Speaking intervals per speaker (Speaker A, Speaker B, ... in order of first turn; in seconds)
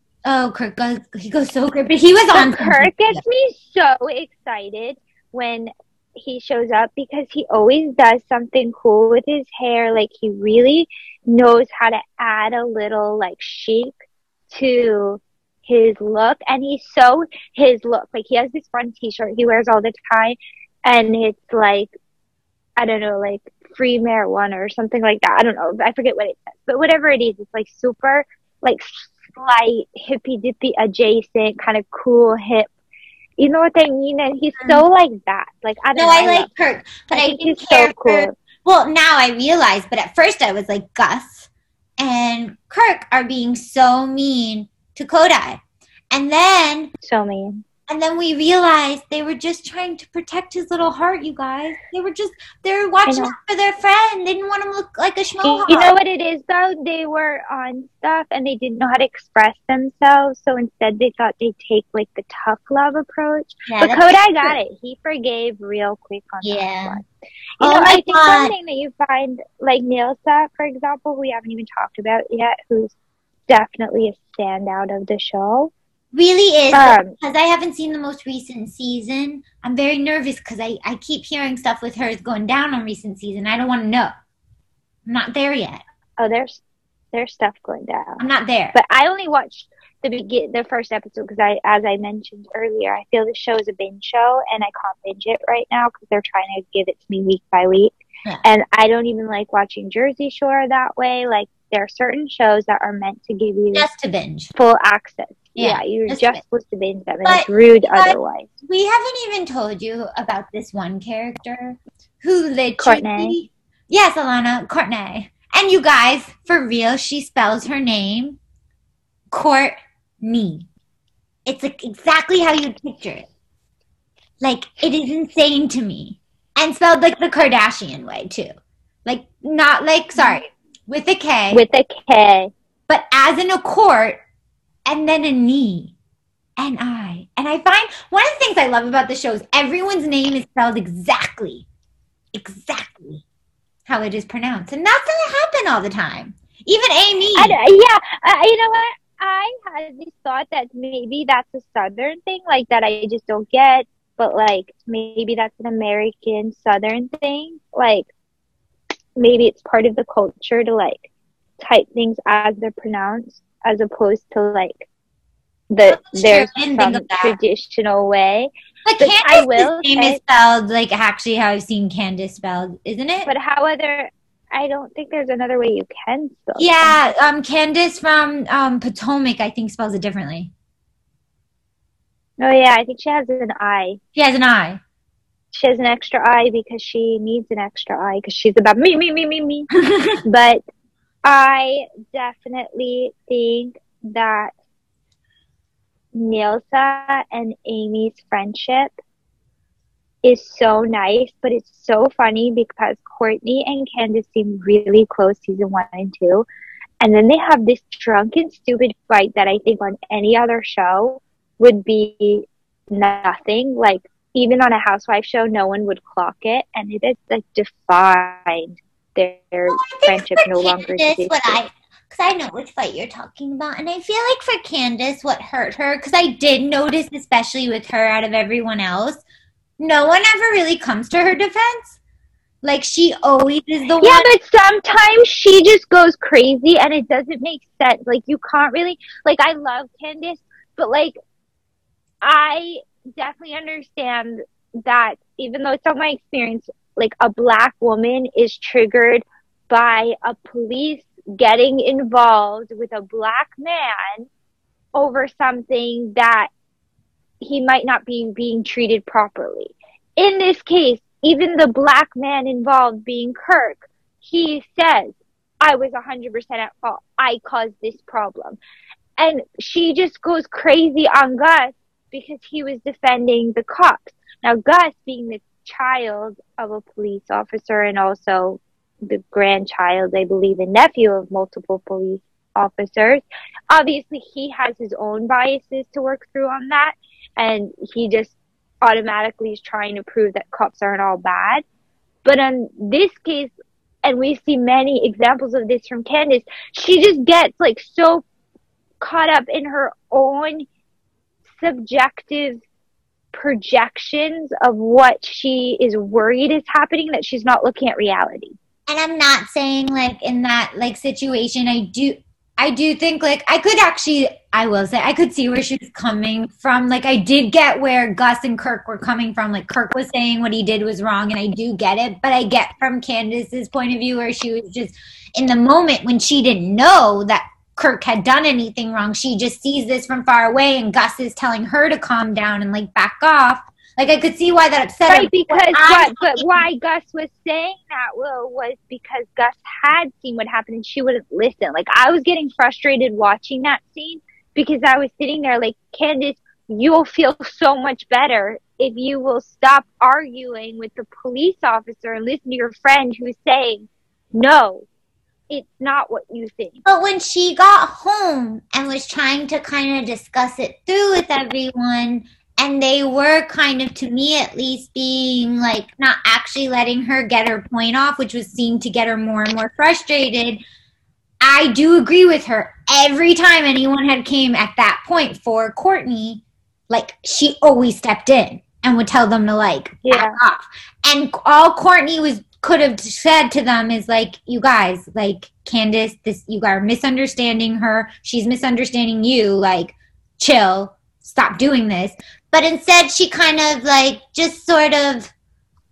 Speaker A: 0.2-3.2, 34.6-34.8, 35.9-46.9, 47.9-55.9, 63.7-64.6, 66.4-67.0, 67.6-68.5, 76.1-84.1, 85.0-85.8, 88.2-88.8, 103.7-104.5, 105.5-106.4, 107.2-118.4, 119.3-120.7, 121.5-123.3, 124.4-128.5, 129.1-131.6, 132.9-134.2, 134.9-135.9, 136.6-141.7, 142.3-143.2, 143.9-147.6, 165.8-167.3, 168.8-173.3, 176.6-180.5, 184.1-184.8, 189.9-190.2, 219.7-229.2, 229.8-232.0, 232.6-234.3, 308.9-336.6, 356.8-370.6, 371.4-395.3
Speaker B: 2.3-13.9, 14.5-21.9, 22.8-32.7, 33.4-36.5, 37.1-38.3, 47.0-47.6, 53.0-53.3, 55.4-67.0, 67.6-72.9, 73.5-75.7, 76.7-77.2, 86.2-86.6, 87.1-88.2, 88.7-103.9, 104.5-108.5, 112.8-113.3, 131.5-132.5, 147.3-158.1, 159.2-161.1, 161.6-164.8, 165.7-170.2, 173.2-176.9, 182.4-184.0, 185.5-189.7, 190.2-190.6, 191.2-194.5, 196.1-198.9, 200.2-206.4, 207.0-221.6, 234.0-241.2, 242.2-254.3, 254.9-256.5, 257.4-268.6, 269.2-291.6, 292.2-298.2, 299.0-300.7, 301.6-302.6, 303.3-308.6, 335.1-354.9, 355.5-356.8, 380.0-380.4